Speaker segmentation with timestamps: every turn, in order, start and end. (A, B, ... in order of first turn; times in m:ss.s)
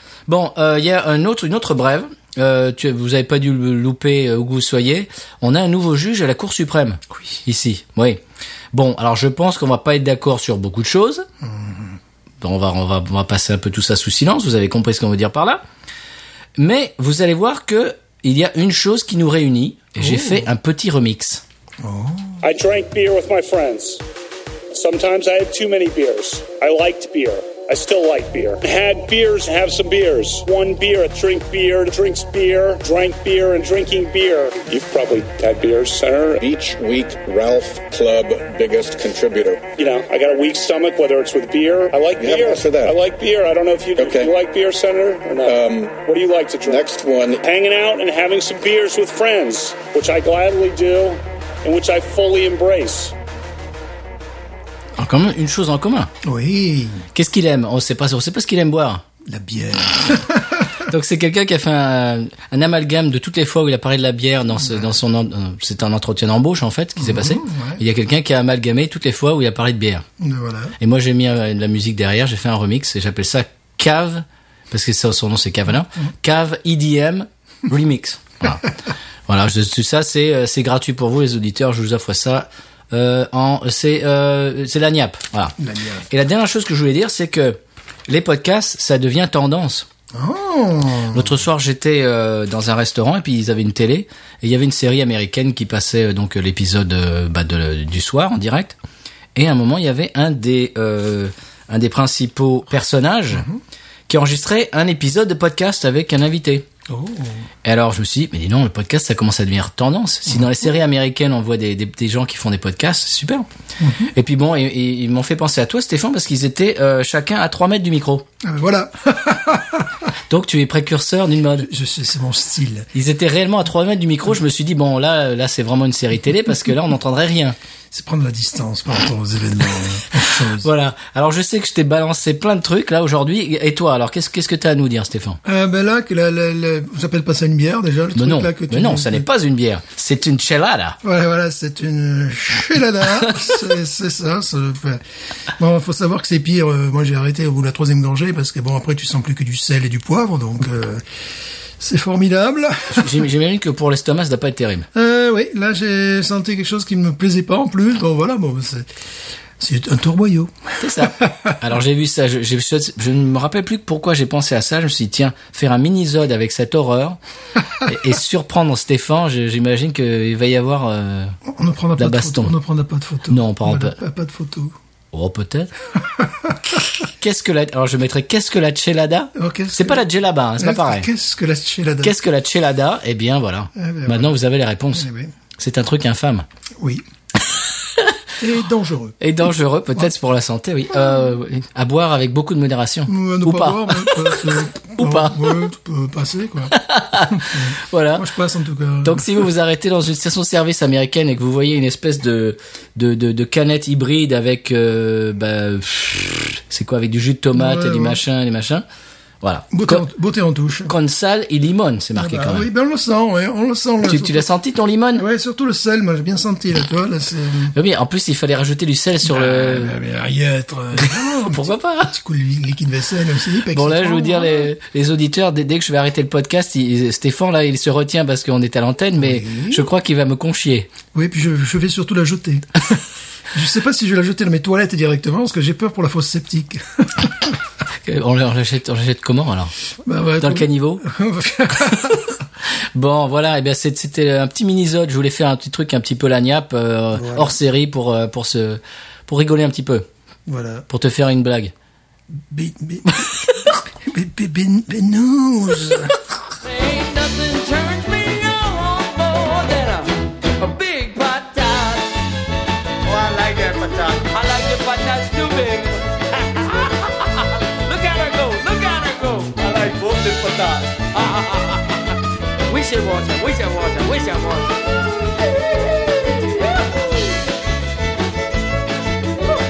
0:00.3-0:08.2 A
0:08.7-0:11.2 A
0:11.4-0:12.0 B
0:12.4-0:15.6 A
0:16.6-0:21.4 A
0:20.0-0:20.5 B
0:21.8-0:22.4 B
0:22.4-0:24.0 C
0:24.7-0:36.4 C
0:36.4-0:39.7 D
0:39.8-0:53.1 C
0:42.2-0:43.0 D
0:44.0-0:44.3 D
0:45.4-0:46.0 D
0:46.6-0:47.4 D
0:55.0-0:56.1 A
0:56.2-0:57.0 B
0:57.1-0:59.0 A
0:59.2-1:00.8 B
1:00.9-1:10.0 A
1:04.6-1:05.0 B
1:07.0-1:07.8 B
1:10.2-1:10.8 B
1:10.8-1:18.7 A
1:19.3-1:25.5 A
1:25.6-1:26.0 B
1:26.1-1:29.9 A
1:30.1-1:31.4 B
1:31.1-1:38.8 A
1:39.3-1:43.5 A
1:43.3-1:43.6 B
1:44.1-1:46.7 A
1:46.9-1:47.4 B
1:47.6-1:53.4 A
1:53.8-1:54.1 B
1:54.1-1:58.2 A
1:58.4-2:00.0 B
2:00.3-2:01.7 A
2:01.5-2:02.9 B
2:02.9-2:07.6 A
2:07.9-2:10.7 B
2:10.6-2:15.4 A
2:15.4-2:19.3 B
2:18.1-2:21.0 A
2:21.0-2:25.0 B
2:25.6-2:31.0 B
2:31.8-2:33.2 B
2:32.9-2:34.9 A
2:34.9-2:38.9 B
2:39.6-2:41.5 B
2:40.8-2:47.2 A
2:47.8-2:51.3 A
2:51.5-2:54.7 B
2:52.0-2:52.5 A
2:53.3-2:54.0 A
2:55.1-2:55.7 A
2:56.2-2:56.6 B
2:57.2-3:01.1 A
2:59.4-3:00.1 B
3:00.6-3:02.1 B
3:02.0-3:05.0 A
3:03.8-3:04.4 B
3:04.9-3:05.3 B
3:05.6-3:06.4 A
3:08.4-3:09.2 B
3:09.2-3:15.7 A
3:13.1-3:16.7 B
3:16.7-3:18.2 A
3:17.3-3:19.5 B
3:19.0-3:28.8 A
3:27.5-3:28.2 B
3:29.4-3:30.0 A
3:29.7-3:30.9 B
3:30.9-3:32.7 A
3:32.1-3:34.5 B
3:34.0-3:35.2 A
3:35.1-3:37.8 B
3:37.8-3:39.9 A
3:39.2-3:44.7 B
3:41.0-3:42.1 A
3:43.7-3:50.9 A
3:49.2-3:49.9 B
3:51.1-3:53.0 B
3:53.5-3:57.5 B
3:58.0-3:59.7 A
4:00.0-4:02.3 B
4:00.4-4:01.0 A
4:02.9-4:10.0 A
4:07.1-4:07.5 B
4:10.5-4:10.9 B
4:10.9-4:11.7 A
4:12.5-4:16.2 B
4:16.6-4:22.0 E
4:19.4-4:19.7 A
4:20.8-4:21.1 A
4:23.0-4:32.0 E
4:24.3-4:24.5 A
4:28.8-4:29.2 A
4:32.7-4:34.9 E
4:35.9-4:36.6 E